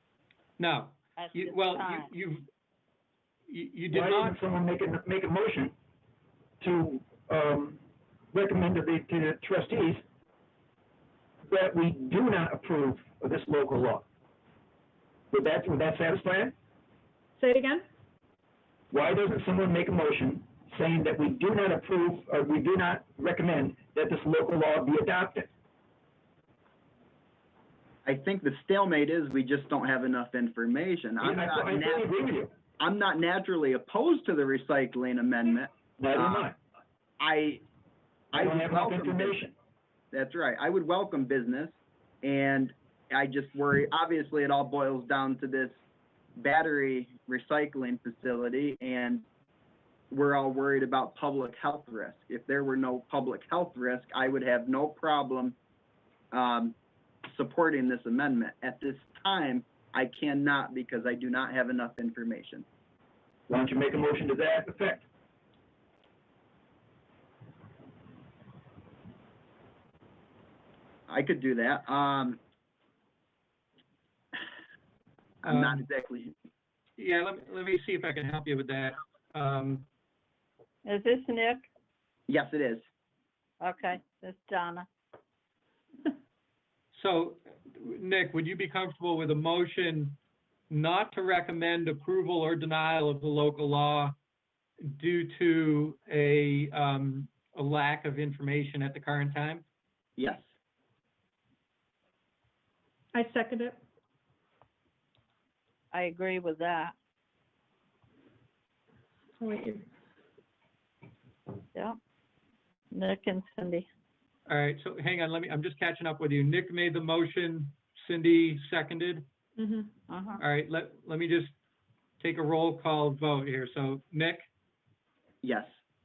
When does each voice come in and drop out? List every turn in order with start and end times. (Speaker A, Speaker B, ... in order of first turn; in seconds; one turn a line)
Speaker A: 0.6-2.5
Speaker B: 1.2-2.1
Speaker A: 3.5-4.4
Speaker C: 3.9-5.8
Speaker C: 6.6-7.8
Speaker C: 8.3-10.1
Speaker C: 11.4-14.1
Speaker C: 15.3-16.5
Speaker D: 17.4-17.8
Speaker C: 18.9-25.5
Speaker E: 28.1-32.1
Speaker C: 31.2-32.5
Speaker E: 32.8-36.5
Speaker C: 36.0-36.6
Speaker E: 37.2-37.6
Speaker E: 38.3-39.4
Speaker C: 38.4-39.5
Speaker E: 40.1-45.8
Speaker E: 46.4-49.2
Speaker E: 50.1-55.6
Speaker E: 56.3-56.8
Speaker E: 57.3-62.6
Speaker C: 63.5-65.1
Speaker E: 71.1-72.4
Speaker E: 75.4-76.3
Speaker A: 75.5-75.8
Speaker A: 77.0-79.8
Speaker B: 80.8-81.7
Speaker E: 82.3-82.8
Speaker B: 83.6-84.9
Speaker A: 86.9-90.2
Speaker A: 90.7-94.2
Speaker A: 94.8-99.7
Speaker E: 100.2-100.4
Speaker D: 103.1-103.8
Speaker B: 105.9-106.9
Speaker D: 109.4-109.8
Speaker B: 112.9-113.9
Speaker A: 114.5-119.3
Speaker D: 119.6-119.9
Speaker B: 120.1-120.4
Speaker A: 120.4-121.5
Speaker A: 122.2-124.5
Speaker E: 125.4-125.7